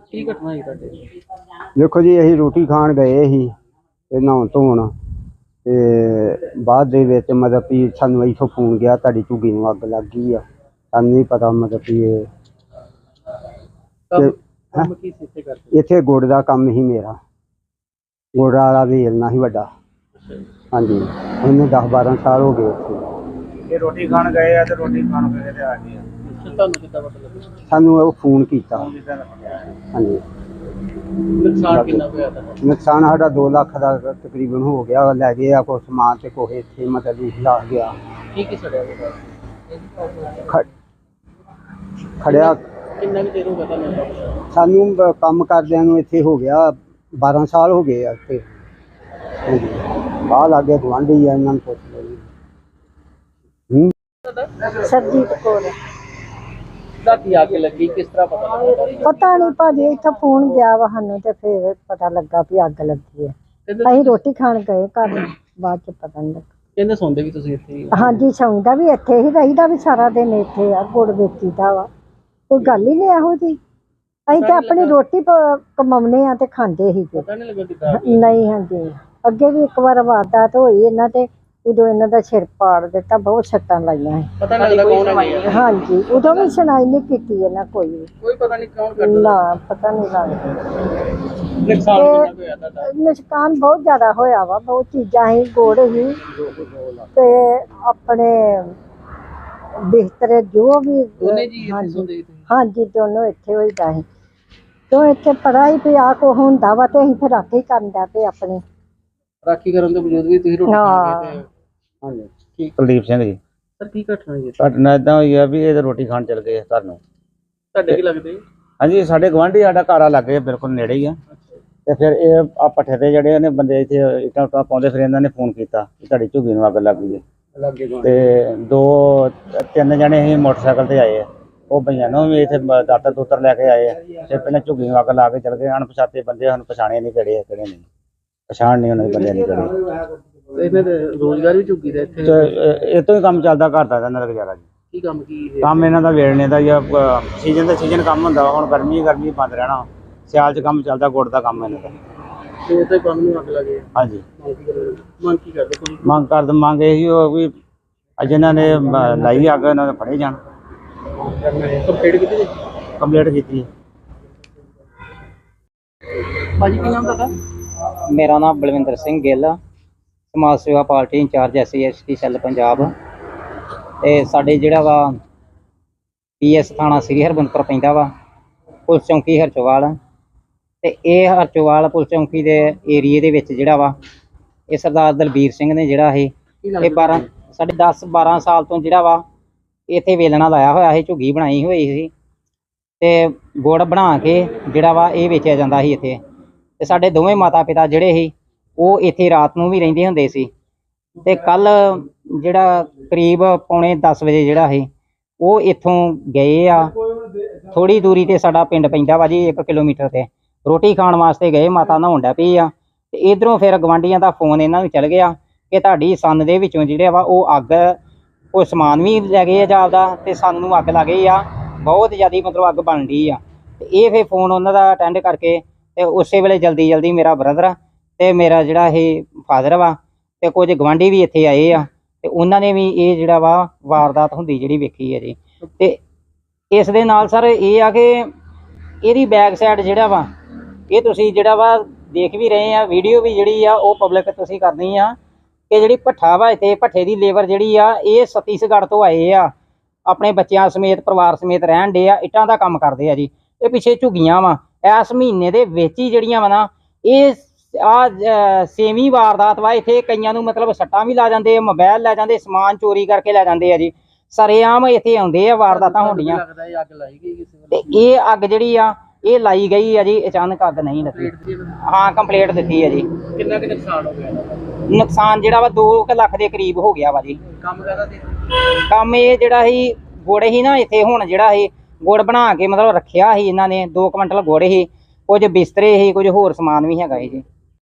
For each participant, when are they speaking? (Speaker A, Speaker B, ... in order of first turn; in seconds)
Speaker A: 0.1-1.0, 14.1-15.8, 20.1-20.4, 26.2-27.6, 31.3-32.6, 38.3-39.2, 42.2-44.4, 54.2-54.6, 57.0-59.3, 63.7-64.2, 66.8-68.2, 72.6-72.9, 74.3-75.0, 77.2-78.3, 84.4-86.5, 88.2-89.5, 91.5-92.9, 101.2-102.5, 109.4-111.5, 113.8-114.7, 117.7-118.4, 121.3-121.6, 140.5-142.5, 144.9-145.9, 152.6-153.8, 154.4-156.0, 161.2-162.7, 166.3-167.3, 186.6-187.2, 265.7-268.0, 271.1-271.7, 273.2-274.8, 277.4-278.5
Speaker B: 1.8-3.5, 4.1-4.9, 5.6-12.3, 14.2-14.9, 15.7-17.2, 18.3-19.7, 20.7-23.1, 27.7-28.9, 29.9-30.2, 31.7-32.1, 32.6-37.9, 42.2-42.6, 44.5-48.5, 49.5-52.3, 96.4-97.0, 112.0-112.3, 127.6-128.1
Speaker C: 23.7-26.0, 28.8-29.8, 112.8-113.4, 114.6-117.0, 118.8-121.2, 121.8-127.2, 128.0-137.8, 138.5-139.8, 142.2-144.7, 145.6-151.9, 153.9-154.2, 156.0-157.5, 158.2-160.4, 163.0-163.7
Speaker D: 54.7-55.7, 59.0-66.5, 67.9-71.9, 72.5-73.6, 74.3-77.2, 77.9-84.3, 85.5-88.1, 89.0-90.8, 91.8-92.3, 92.8-96.2, 97.1-98.8, 99.8-104.0, 104.9-108.6, 110.7-111.4
Speaker E: 84.5-85.6, 168.1-169.6, 170.3-172.9, 174.0-175.2, 176.4-178.1, 178.9-179.9, 180.8-184.0, 184.7-189.2, 189.9-192.1, 193.0-196.2, 196.8-200.5, 201.2-204.9, 205.4-206.9, 207.7-218.0, 218.5-236.0, 236.7-238.3, 239.0-240.3, 240.9-245.2, 245.7-249.5, 250.1-266.4, 267.7-271.3, 271.8-273.1, 274.9-277.4, 278.8-287.4